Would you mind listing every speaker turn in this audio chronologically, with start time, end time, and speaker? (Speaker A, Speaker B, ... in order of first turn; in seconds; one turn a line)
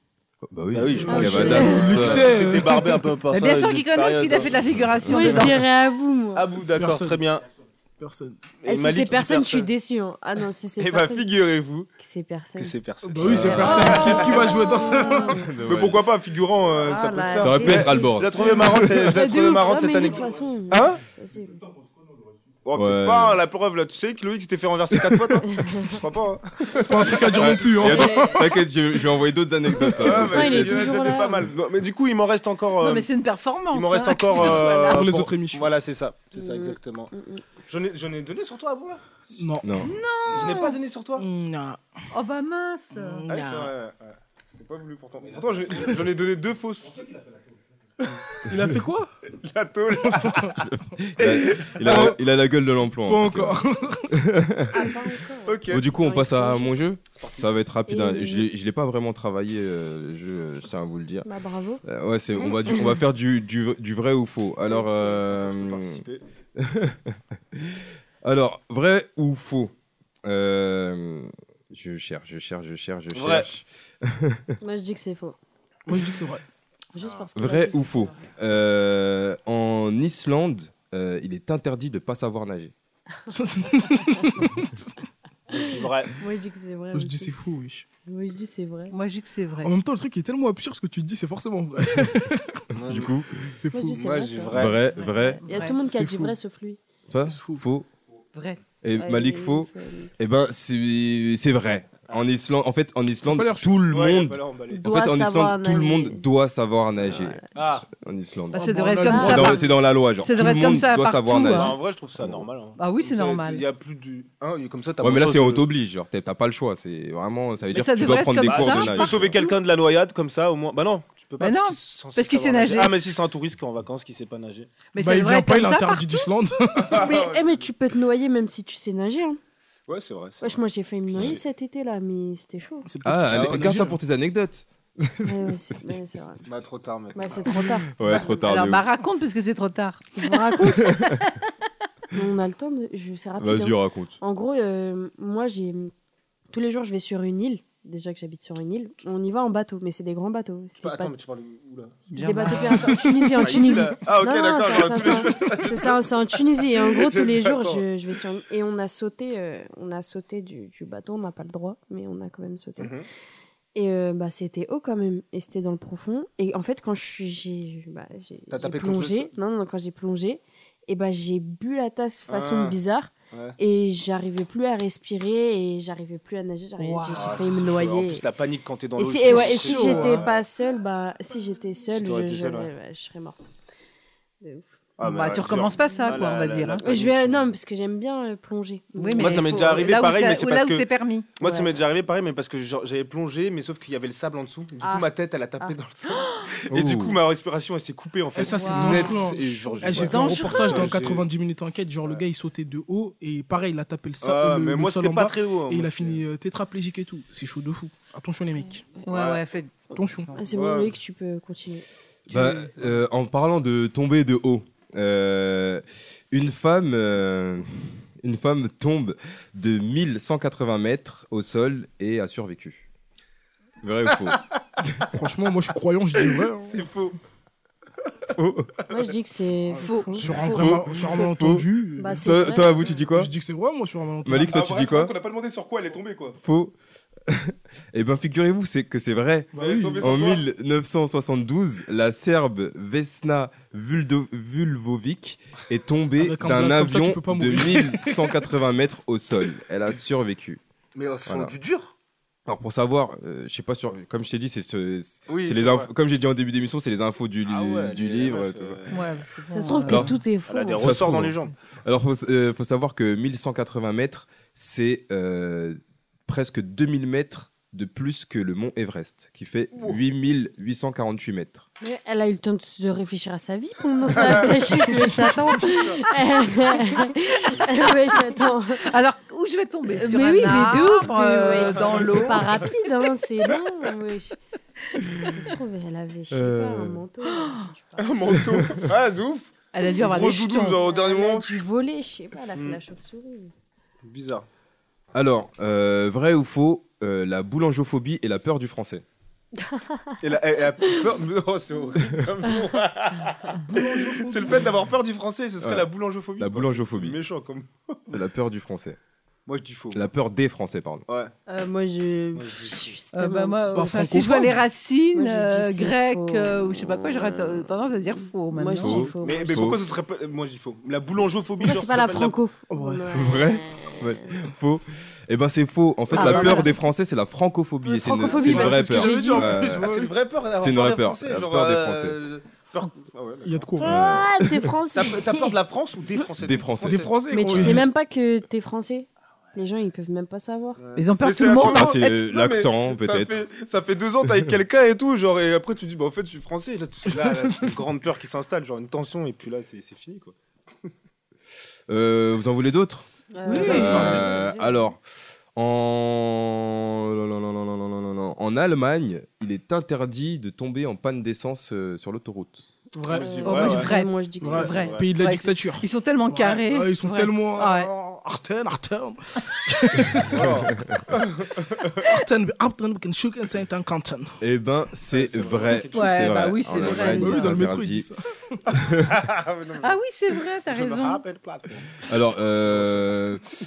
Speaker A: 0.5-2.4
Speaker B: 0.7-4.5
Speaker C: 1.0-2.1
Speaker D: 1.2-3.0
Speaker E: 3.3-5.7
Speaker A: 4.8-5.5
Speaker C: 5.0-6.5
Speaker B: 6.3-7.5
Speaker D: 6.8-7.2
Speaker D: 8.0-8.4
Speaker B: 8.6-9.7
Speaker C: 8.7-11.3
Speaker B: 10.8-11.9
Speaker C: 12.0-15.5
Speaker B: 12.6-14.7
Speaker D: 13.1-15.3
Speaker A: 13.2-14.2
Speaker A: 15.3-16.0
Speaker B: 15.7-21.0
Speaker C: 16.8-21.6
Speaker A: 17.4-19.1
Speaker B: 22.6-27.5
Speaker A: 22.8-23.4
Speaker A: 25.0-25.4
Speaker C: 25.5-25.8
Speaker D: 26.8-28.5
Speaker A: 27.3-31.2
Speaker B: 30.0-33.1
Speaker C: 30.0-31.5
Speaker E: 32.8-35.0
Speaker B: 33.7-37.1
Speaker C: 34.4-35.0
Speaker D: 34.9-35.7
Speaker C: 36.4-37.4
Speaker B: 37.7-39.4
Speaker D: 39.4-39.7
Speaker A: 39.6-39.9
Speaker E: 39.8-40.8
Speaker B: 40.3-41.2
Speaker D: 41.2-41.8
Speaker E: 42.1-43.3
Speaker D: 42.9-43.7
Speaker B: 43.3-47.1
Speaker B: 48.0-48.3
Speaker D: 48.4-49.1
Speaker B: 49.4-50.6
Speaker D: 50.1-50.5
Speaker A: 50.6-53.6
Speaker B: 51.2-52.2
Speaker D: 51.9-52.1
Speaker D: 53.1-54.1
Speaker A: 54.1-55.0
Speaker C: 54.7-56.7
Speaker B: 55.5-55.8
Speaker A: 55.7-61.3
Speaker B: 57.2-57.5
Speaker C: 57.9-58.5
Speaker C: 61.2-61.8
Speaker A: 61.8-66.0
Speaker C: 62.4-63.0
Speaker B: 64.8-66.2
Speaker A: 66.6-69.7
Speaker A: 70.2-74.6
Speaker B: 73.1-73.5
Speaker C: 74.6-75.4
Speaker D: 75.9-76.4
Speaker C: 76.9-78.3
Speaker A: 77.3-82.7
Speaker D: 83.3-84.9
Speaker C: 85.5-87.4
Speaker B: 85.6-86.1
Speaker D: 86.9-87.8
Speaker C: 88.1-89.0
Speaker E: 88.9-89.7
Speaker D: 89.6-92.6
Speaker B: 92.8-93.1
Speaker A: 92.8-93.5
Speaker D: 93.6-94.0
Speaker C: 93.7-94.8
Speaker B: 94.0-94.8
Speaker A: 94.5-95.4
Speaker E: 94.9-95.8
Speaker C: 95.5-96.8
Speaker D: 95.8-96.3
Speaker A: 97.1-97.9
Speaker D: 97.3-97.6
Speaker E: 98.3-98.6
Speaker A: 98.8-107.4
Speaker C: 99.0-100.1
Speaker D: 103.2-103.8
Speaker B: 103.9-104.8
Speaker C: 104.7-106.2
Speaker C: 107.0-107.4
Speaker B: 107.5-107.9
Speaker A: 107.9-112.4
Speaker E: 108.5-111.8
Speaker D: 108.6-109.5
Speaker C: 109.1-109.6
Speaker B: 111.5-115.7
Speaker E: 112.8-113.7
Speaker A: 115.0-119.4
Speaker E: 117.7-119.2
Speaker B: 118.4-124.7
Speaker E: 121.4-123.0
Speaker E: 124.9-126.3
Speaker D: 125.0-127.0
Speaker B: 126.8-127.7
Speaker C: 126.8-129.4
Speaker B: 129.9-130.6
Speaker C: 130.4-132.9
Speaker B: 131.1-131.4
Speaker D: 132.8-134.0
Speaker A: 133.1-136.0
Speaker B: 133.3-133.6
Speaker C: 135.2-136.4
Speaker B: 136.5-137.5
Speaker C: 137.1-138.5
Speaker A: 137.9-138.9
Speaker E: 138.5-140.5
Speaker C: 140.2-141.0
Speaker A: 140.7-141.2
Speaker E: 141.1-141.5
Speaker C: 142.1-145.9
Speaker A: 143.4-144.2
Speaker C: 146.5-151.1
Speaker B: 150.8-152.8
Speaker E: 152.1-153.0
Speaker C: 152.2-162.9
Speaker D: 152.9-153.3
Speaker B: 153.4-156.0
Speaker B: 156.8-157.8
Speaker B: 162.8-163.1
Speaker C: 163.8-178.3
Speaker B: 168.5-169.3
Speaker B: 172.3-172.8
Speaker E: 176.8-177.1
Speaker B: 177.1-180.4
Speaker C: 179.0-183.5
Speaker E: 179.5-180.2
Speaker B: 181.9-182.7
Speaker C: 184.4-184.7
Speaker B: 185.0-187.5
Speaker E: 185.0-186.9
Speaker C: 185.8-186.2
Speaker C: 186.8-189.8
Speaker E: 189.0-191.3
Speaker B: 189.2-190.9
Speaker B: 191.4-201.3
Speaker C: 191.4-191.8
Speaker C: 194.8-195.1
Speaker A: 196.7-197.2
Speaker D: 198.4-208.8
Speaker E: 198.4-199.2
Speaker E: 199.9-200.9
Speaker B: 204.2-206.2
Speaker E: 209.1-210.4
Speaker B: 209.1-209.4
Speaker D: 209.9-210.3
Speaker C: 210.3-211.9
Speaker B: 210.5-210.9
Speaker A: 212.3-222.9
Speaker A: 223.8-224.4
Speaker D: 225.1-226.8
Speaker B: 226.6-227.2
Speaker A: 228.3-228.7
Speaker C: 228.9-231.3
Speaker E: 229.8-230.7
Speaker D: 230.1-232.2
Speaker A: 230.5-231.7
Speaker C: 232.0-233.0
Speaker A: 232.2-233.3
Speaker D: 233.1-234.6
Speaker A: 234.2-235.1
Speaker B: 234.5-236.4
Speaker A: 236.4-236.8
Speaker A: 237.3-250.6
Speaker D: 239.5-240.1
Speaker B: 239.6-240.4
Speaker D: 246.2-248.5
Speaker B: 251.0-251.9
Speaker A: 251.3-251.5
Speaker A: 252.5-258.8
Speaker B: 255.3-255.9
Speaker B: 257.4-259.0
Speaker E: 258.9-260.2
Speaker C: 259.5-261.0
Speaker A: 259.9-260.1
Speaker B: 260.5-261.5
Speaker A: 260.7-271.7
Speaker B: 269.7-270.0
Speaker C: 271.8-278.9
Speaker B: 274.2-274.8
Speaker B: 275.6-276.0
Speaker E: 278.8-282.6
Speaker C: 279.9-284.4
Speaker B: 281.6-282.4
Speaker C: 285.2-288.8
Speaker A: 286.3-287.0
Speaker E: 287.4-287.6
Speaker B: 288.0-291.6
Speaker A: 288.5-288.8
Speaker E: 289.7-290.8
Speaker C: 289.8-293.5
Speaker B: 292.6-292.8
Speaker B: 294.0-294.5
Speaker A: 295.1-299.0
Speaker C: 299.7-300.0
Speaker B: 300.2-308.2
Speaker D: 303.6-304.7
Speaker A: 305.6-305.9
Speaker A: 306.4-307.2
Speaker A: 308.1-309.0
Speaker B: 309.5-310.0
Speaker A: 309.9-311.0
Speaker B: 311.1-311.3
Speaker C: 311.5-314.1
Speaker B: 312.4-312.9
Speaker E: 313.1-319.1
Speaker D: 313.7-314.6
Speaker C: 315.1-317.7
Speaker C: 318.5-319.7
Speaker A: 318.8-319.8
Speaker B: 319.2-322.4
Speaker C: 321.6-324.2
Speaker D: 322.7-323.0
Speaker A: 323.1-329.9
Speaker B: 326.1-326.6
Speaker C: 326.1-326.8
Speaker C: 327.9-329.6
Speaker D: 328.4-330.1
Speaker B: 329.8-333.7
Speaker A: 330.6-332.2
Speaker D: 333.4-334.0
Speaker C: 333.8-335.6
Speaker A: 333.8-334.8
Speaker B: 334.9-337.1
Speaker A: 336.4-337.8
Speaker D: 336.9-337.8
Speaker C: 337.3-340.8
Speaker B: 340.8-350.4
Speaker E: 341.0-342.0
Speaker A: 341.6-343.4
Speaker D: 347.1-347.7
Speaker A: 351.9-355.0
Speaker C: 353.3-354.9
Speaker E: 353.5-354.2
Speaker B: 353.6-354.3
Speaker D: 353.7-354.1
Speaker A: 355.6-362.7
Speaker D: 362.9-370.4
Speaker B: 363.1-363.9
Speaker C: 363.1-365.1
Speaker E: 363.4-367.9
Speaker B: 364.7-365.0
Speaker B: 370.3-372.0
Speaker A: 370.7-371.0
Speaker D: 372.0-374.4
Speaker A: 374.4-378.1
Speaker B: 375.1-377.2
Speaker E: 375.9-377.5
Speaker D: 377.1-378.6
Speaker A: 378.7-379.2
Speaker B: 379.1-380.0
Speaker E: 379.8-381.2
Speaker B: 380.6-382.0
Speaker A: 382.1-383.4
Speaker B: 382.7-383.1